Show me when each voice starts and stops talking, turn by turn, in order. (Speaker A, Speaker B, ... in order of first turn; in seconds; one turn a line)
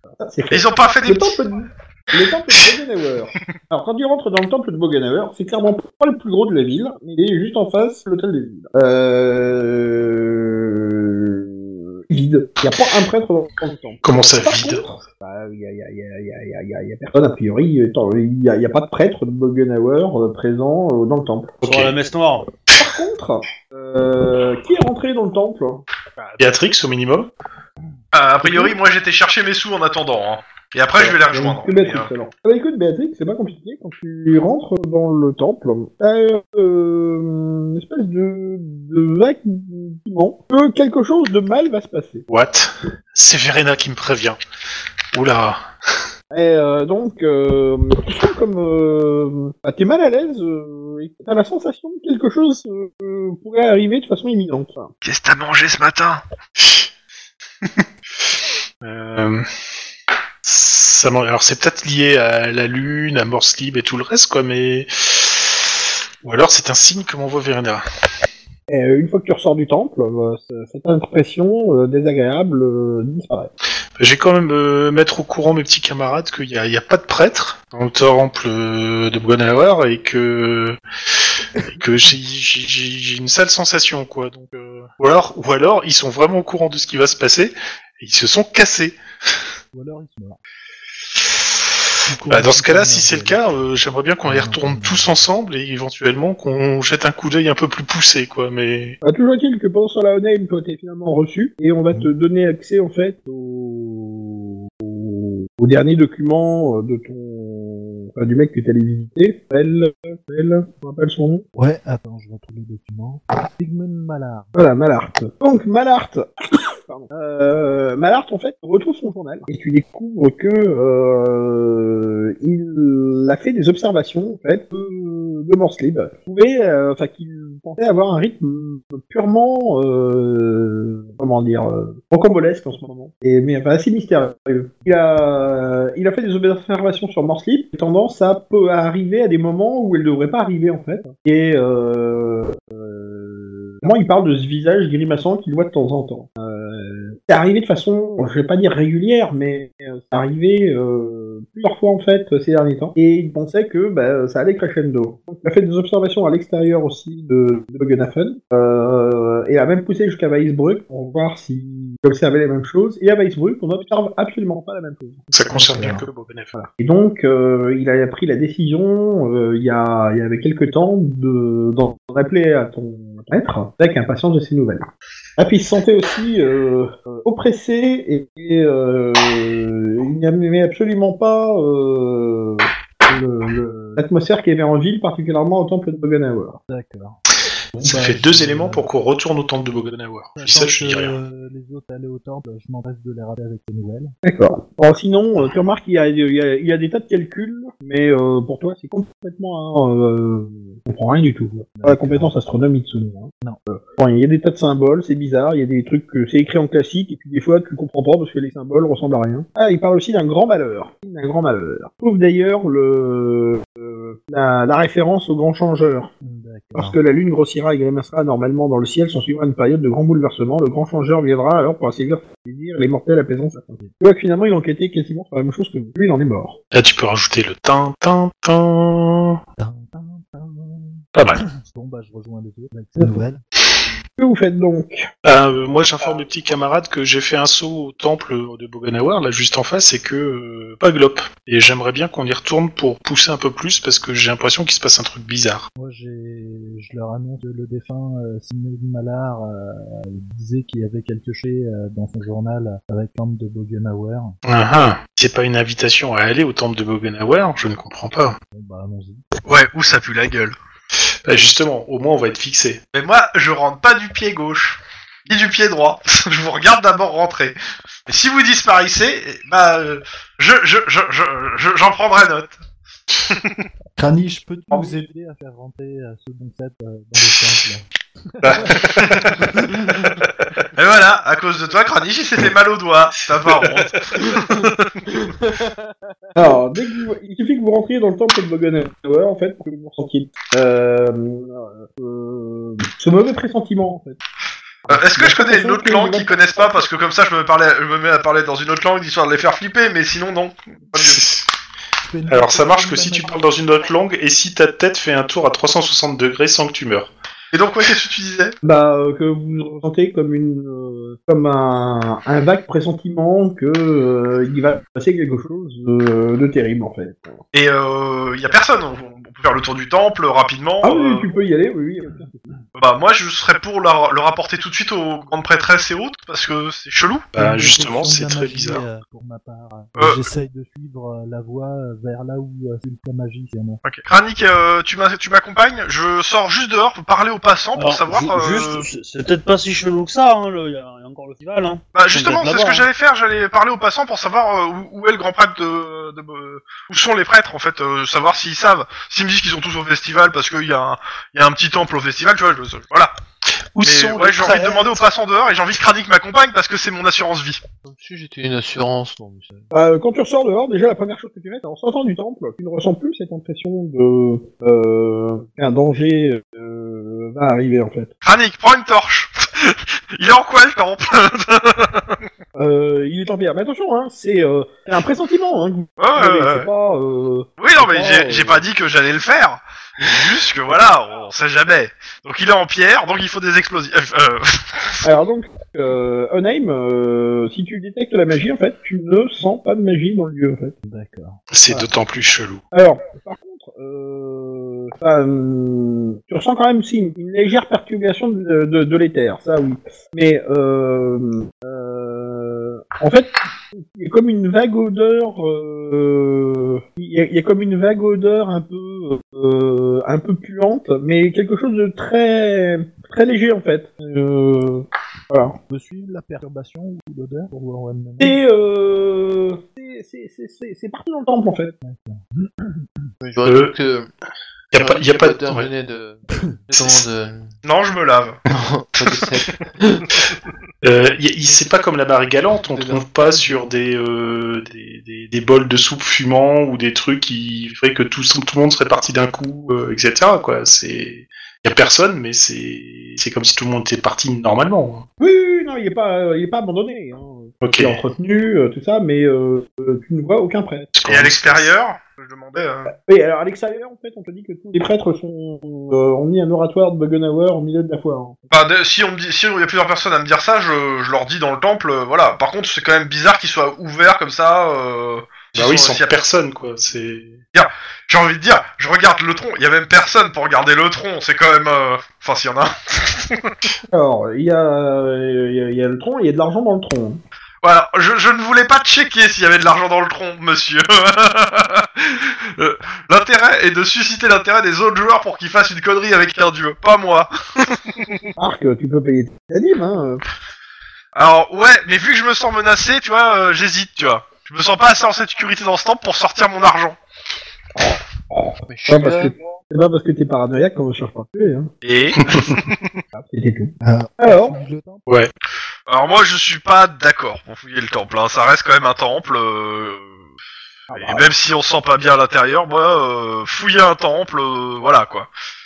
Speaker A: 0.2-21.6
Speaker B: 0.5-1.4
Speaker C: 14.0-14.9
Speaker D: 21.6-22.5
Speaker C: 21.6-21.9
Speaker A: 22.7-25.8
Speaker C: 26.2-27.3
Speaker B: 28.1-32.1
Speaker A: 28.4-28.7
Speaker A: 31.0-42.2
Speaker C: 42.3-44.4
Speaker C: 45.1-45.6
Speaker A: 46.3-54.9
Speaker B: 55.0-56.2
Speaker C: 56.6-56.9
Speaker C: 58.8-59.5
Speaker C: 60.4-67.8
Speaker A: 68.7-73.5
Speaker C: 74.0-80.8
Speaker C: 81.7-89.0
Speaker E: 89.7-90.4
Speaker E: 92.0-93.4
Speaker C: 92.3-99.0
Speaker E: 94.2-95.2
Speaker A: 99.0-111.4
Speaker E: 111.5-114.5
Speaker A: 114.5-165.3
Speaker C: 165.3-166.5
Speaker E: 165.5-166.0
Speaker A: 166.5-186.6
Speaker E: 186.7-187.2
Speaker E: 187.7-188.9
Speaker C: 187.8-191.2
Speaker E: 190.4-194.1
Speaker A: 194.2-216.1
Speaker E: 201.8-202.3
Speaker E: 216.2-217.0
Speaker A: 216.7-226.6
Speaker C: 226.7-229.4
Speaker E: 229.6-233.4
Speaker C: 231.1-231.4
Speaker A: 234.2-235.1
Speaker C: 235.2-245.7
Speaker E: 245.8-254.3
Speaker C: 254.4-258.4
Speaker E: 258.5-259.2
Speaker B: 259.4-260.5
Speaker C: 261.2-262.8
Speaker B: 262.9-272.6
Speaker B: 273.2-273.6
Speaker E: 274.0-279.8
Speaker B: 274.7-274.9
Speaker C: 278.4-279.3
Speaker B: 278.8-280.1
Speaker B: 280.7-285.1
Speaker C: 283.4-283.9
Speaker A: 286.4-294.2
Speaker A: 294.9-296.4
Speaker B: 294.9-301.3
Speaker C: 300.9-301.4
Speaker E: 302.0-303.4
Speaker C: 302.3-307.1
Speaker B: 307.5-308.5
Speaker A: 308.6-317.4
Speaker B: 317.5-321.3
Speaker A: 320.8-322.5
Speaker B: 322.8-327.3
Speaker C: 327.3-328.9
Speaker E: 327.4-333.8
Speaker B: 329.9-330.2
Speaker B: 333.8-338.9
Speaker D: 337.8-342.8
Speaker B: 341.9-353.1
Speaker C: 353.7-354.9
Speaker B: 353.8-357.6
Speaker F: 357.8-359.7
Speaker A: 359.7-368.1
Speaker B: 368.2-372.2
Speaker A: 372.6-378.6
Speaker B: 376.0-376.7
Speaker B: 377.6-385.0
Speaker A: 385.0-390.8
Speaker E: 390.9-391.4
Speaker C: 391.5-392.6
Speaker A: 392.7-415.6
Speaker E: 415.7-418.4
Speaker A: 418.2-421.8
Speaker E: 421.8-423.1
Speaker F: 423.2-424.1
Speaker C: 423.4-423.7
Speaker C: 424.7-425.7
Speaker F: 424.7-427.5
Speaker B: 427.6-428.4
Speaker F: 428.5-430.1
Speaker C: 430.8-445.1
Speaker F: 432.7-433.7
Speaker A: 445.2-450.9
Speaker C: 447.6-448.0
Speaker C: 450.9-451.7
Speaker B: 451.1-452.9
Speaker A: 452.9-458.4
Speaker B: 458.5-466.1
Speaker C: 465.5-467.4
Speaker B: 467.5-473.5
Speaker A: 473.9-477.2
Speaker B: 477.6-488.3
Speaker A: 488.4-490.2
Speaker B: 491.1-497.0
Speaker A: 497.8-501.7
Speaker F: 498.7-499.3
Speaker B: 501.8-502.9
Speaker C: 502.2-502.6
Speaker A: 503.1-504.6
Speaker E: 503.8-505.0
Speaker B: 505.9-510.1
Speaker A: 510.9-511.3
Speaker B: 510.9-515.3